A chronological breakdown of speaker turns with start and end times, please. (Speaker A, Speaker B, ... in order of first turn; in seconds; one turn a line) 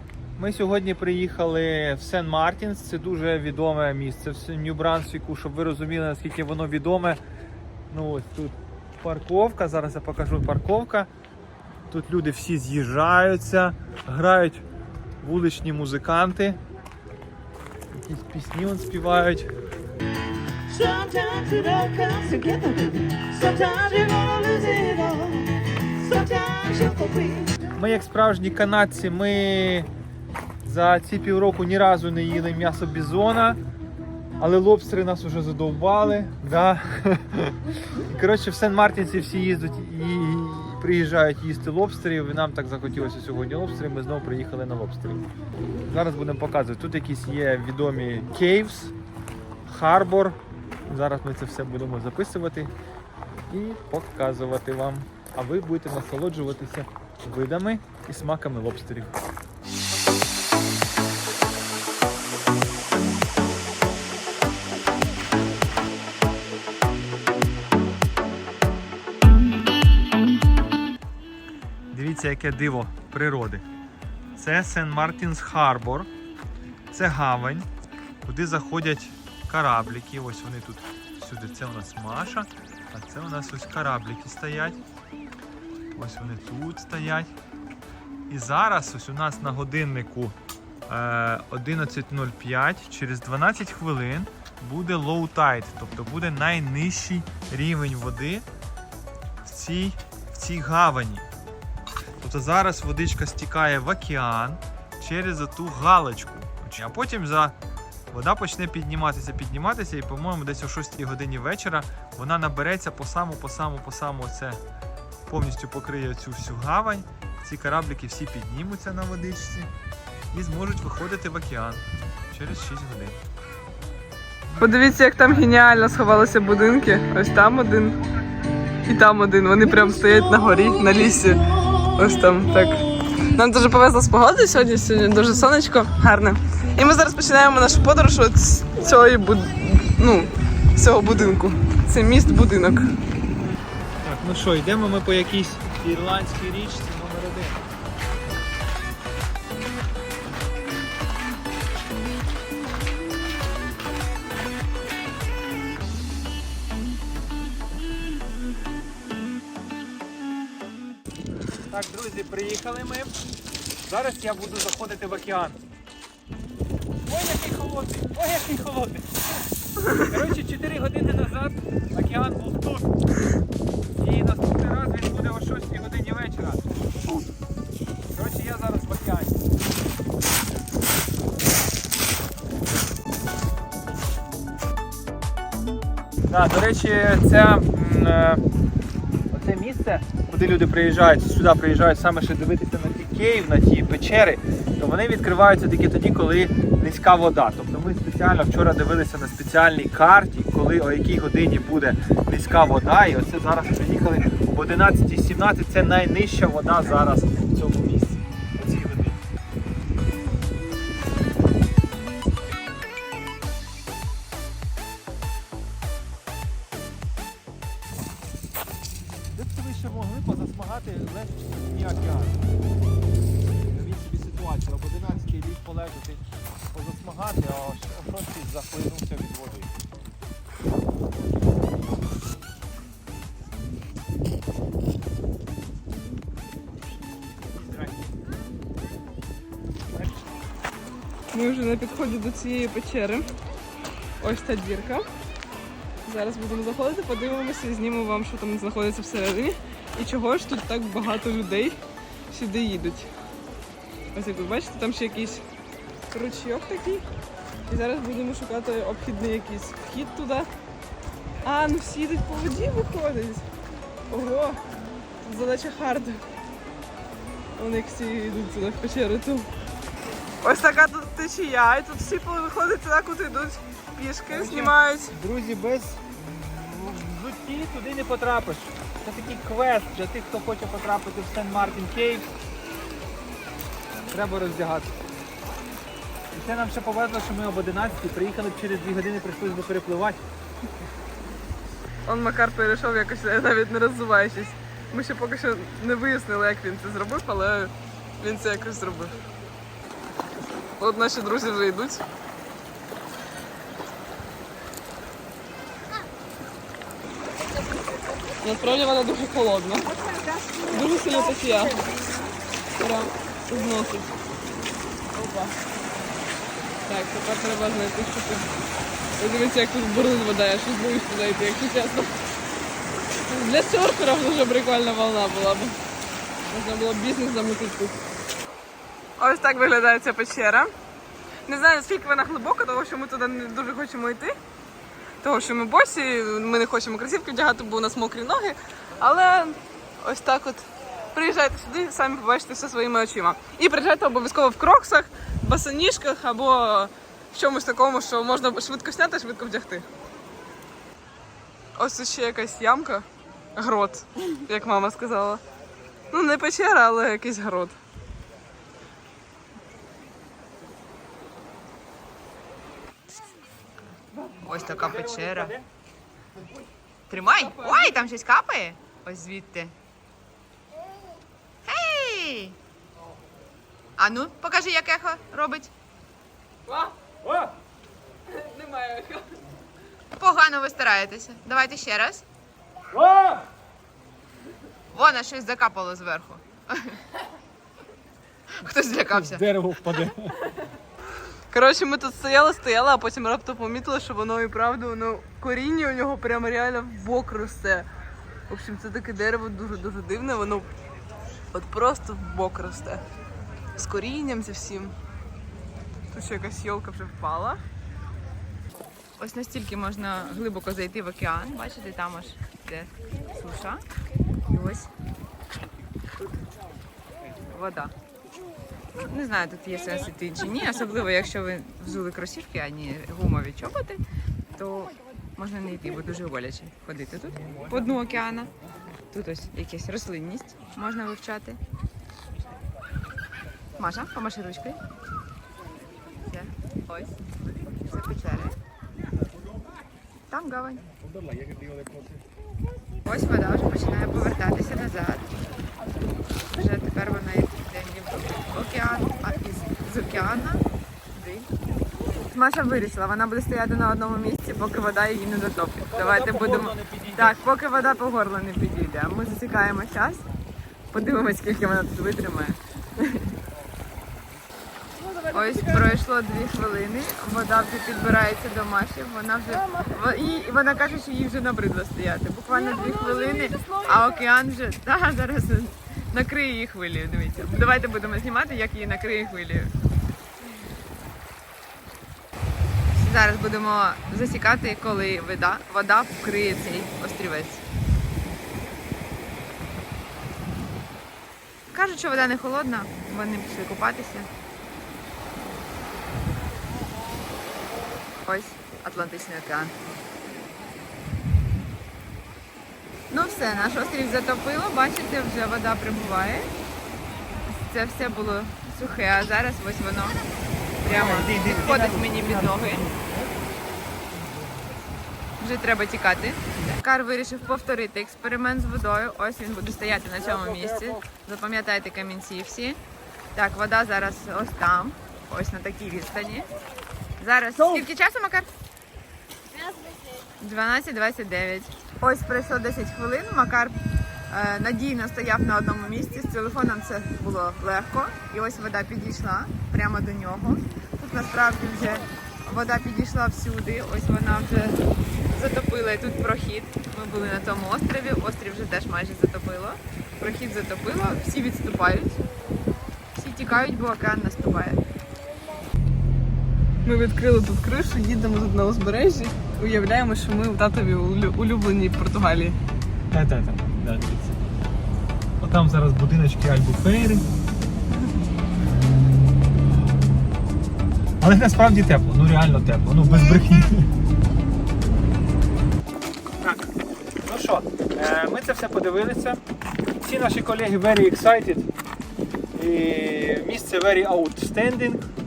Speaker A: 0.4-7.2
Speaker A: 7.9-11.1
Speaker A: 11.9-14.6
Speaker A: 15.2-16.6
Speaker A: 17.9-19.5
Speaker B: 20.7-27.5
Speaker A: 27.6-29.9
Speaker A: 30.6-33.6
Speaker A: 34.4-45.3
Speaker A: 45.9-48.9
Speaker A: 49.6-52.7
Speaker A: 53.5-59.2
Speaker A: 71.9-73.6
Speaker A: 74.3-76.1
Speaker A: 76.9-77.7
Speaker A: 78.2-84.8
Speaker A: 86.0-87.3
Speaker A: 88.3-90.3
Speaker A: 90.9-98.5
Speaker A: 99.4-101.2
Speaker A: 102.2-107.5
Speaker A: 108.1-114.6
Speaker A: 115.3-119.7
Speaker A: 120.3-123.2
Speaker C: 124.5-128.0
Speaker C: 128.8-142.9
Speaker A: 143.4-147.6
Speaker A: 161.7-163.1
Speaker A: 163.8-165.6
Speaker A: 167.0-172.9
Speaker A: 174.0-176.7
Speaker A: 178.1-179.4
Speaker A: 186.3-188.4
Speaker A: 189.3-209.2
Speaker A: 219.3-222.4
Speaker A: 223.6-229.7
Speaker A: 237.5-237.9
Speaker A: 239.9-240.2
Speaker C: 241.3-243.3
Speaker C: 244.2-245.0
Speaker C: 246.0-251.8
Speaker C: 252.3-253.1
Speaker C: 254.1-255.4
Speaker C: 256.1-257.1
Speaker C: 257.7-260.5
Speaker C: 261.4-263.4
Speaker C: 264.1-264.6
Speaker C: 265.2-266.2
Speaker C: 267.6-269.5
Speaker C: 270.4-275.1
Speaker A: 274.3-282.3
Speaker A: 284.1-285.0
Speaker A: 286.3-290.2
Speaker C: 292.1-299.2
Speaker C: 300.7-302.0
Speaker C: 308.4-310.0
Speaker C: 310.6-311.8
Speaker C: 312.8-314.1
Speaker C: 315.1-315.5
Speaker C: 316.8-318.5
Speaker C: 319.2-322.1
Speaker C: 323.3-325.8
Speaker C: 326.4-328.0
Speaker C: 329.2-330.7
Speaker C: 331.4-334.4
Speaker C: 335.2-349.9
Speaker C: 351.8-353.0
Speaker C: 353.6-355.4
Speaker C: 356.1-357.8
Speaker A: 364.4-365.6
Speaker D: 364.4-365.5
Speaker D: 367.1-369.7
Speaker C: 367.3-368.0
Speaker D: 371.6-372.6
Speaker D: 374.0-375.7
Speaker C: 376.7-376.9
Speaker C: 378.3-379.4
Speaker D: 380.2-382.2
Speaker A: 382.9-383.4
Speaker D: 384.9-387.0
Speaker D: 388.6-389.4
Speaker A: 389.1-390.4
Speaker C: 391.5-397.9
Speaker C: 398.5-400.7
Speaker C: 401.5-403.0
Speaker C: 403.8-404.9
Speaker C: 406.1-407.6
Speaker D: 409.2-413.8
Speaker D: 414.5-414.9
Speaker D: 417.5-417.9
Speaker D: 419.0-424.0
Speaker D: 424.5-428.5
Speaker D: 429.1-431.6
Speaker D: 433.8-434.8
Speaker D: 436.2-437.1
Speaker D: 437.8-438.6
Speaker D: 440.3-440.9
Speaker A: 441.2-442.1
Speaker D: 443.0-445.3
Speaker D: 446.5-451.5
Speaker D: 452.2-460.2
Speaker A: 455.8-457.4
Speaker D: 460.9-463.3
Speaker C: 465.0-466.0
Speaker D: 465.3-479.7
Speaker C: 469.5-470.4
Speaker C: 472.5-474.3
Speaker D: 482.9-487.6
Speaker D: 491.7-494.3
Speaker D: 498.2-499.7
Speaker D: 503.1-506.5
Speaker D: 507.5-510.2
Speaker D: 510.8-512.9
Speaker A: 510.9-513.2
Speaker D: 515.4-522.8
Speaker A: 520.2-521.0
Speaker D: 523.3-526.5
Speaker D: 527.2-528.5
Speaker D: 530.4-533.7
Speaker D: 534.3-544.8
Speaker D: 545.3-552.2
Speaker D: 553.1-554.8
Speaker C: 556.8-562.6
Speaker A: 563.1-564.4
Speaker A: 565.4-567.2
Speaker A: 571.2-573.9
Speaker A: 576.4-576.7
Speaker A: 577.2-579.4
Speaker A: 580.0-581.7
Speaker A: 582.5-585.0